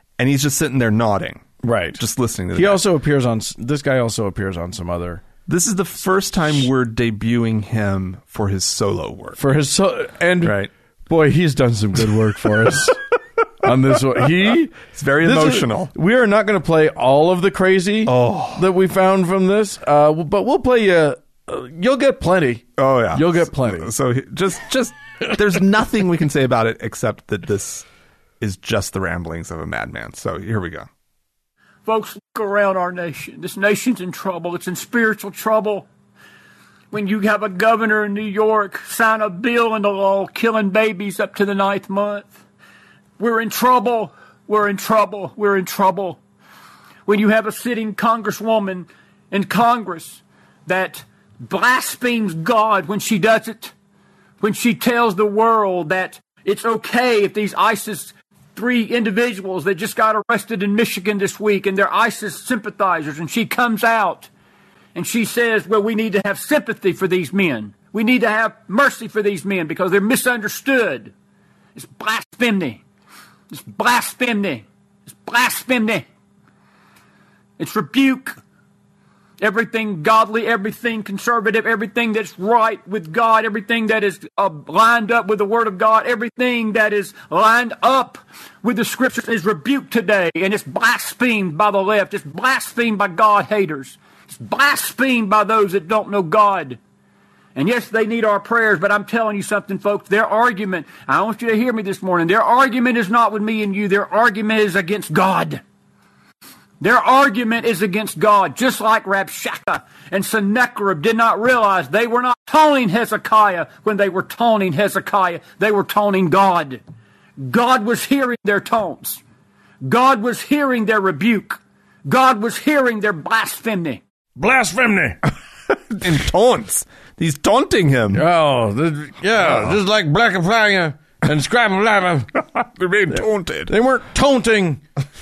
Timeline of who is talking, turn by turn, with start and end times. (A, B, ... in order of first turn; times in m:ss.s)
0:00.2-0:02.8 A
0:01.6-0:02.0 B
0:02.5-0:05.2 B
0:05.5-0:09.4 A
0:09.4-0:13.1 B
0:10.4-0:10.7 A
0:13.6-0:23.9 B
0:14.8-0:15.9 A
0:18.0-0:18.7 A
0:22.8-0:27.9 A
0:28.4-0:30.9 A
0:31.8-0:35.9 C
0:36.9-0:42.4 C
0:43.2-0:46.2 C
0:47.0-0:53.7 C
0:54.4-1:04.3 C
1:04.9-1:11.1 C
1:11.7-1:12.8 C
1:13.5-1:16.0 C
1:17.6-1:18.4 C
1:19.4-1:36.8 C
1:37.5-1:45.6 C
1:46.8-1:56.8 C
1:57.4-1:59.2 C
1:59.8-2:04.0 C
2:04.4-2:05.2 B
2:05.9-2:08.2 A
2:08.1-2:12.3 B
2:09.4-2:09.8 A
2:12.4-2:13.7 A
2:13.1-2:14.8 B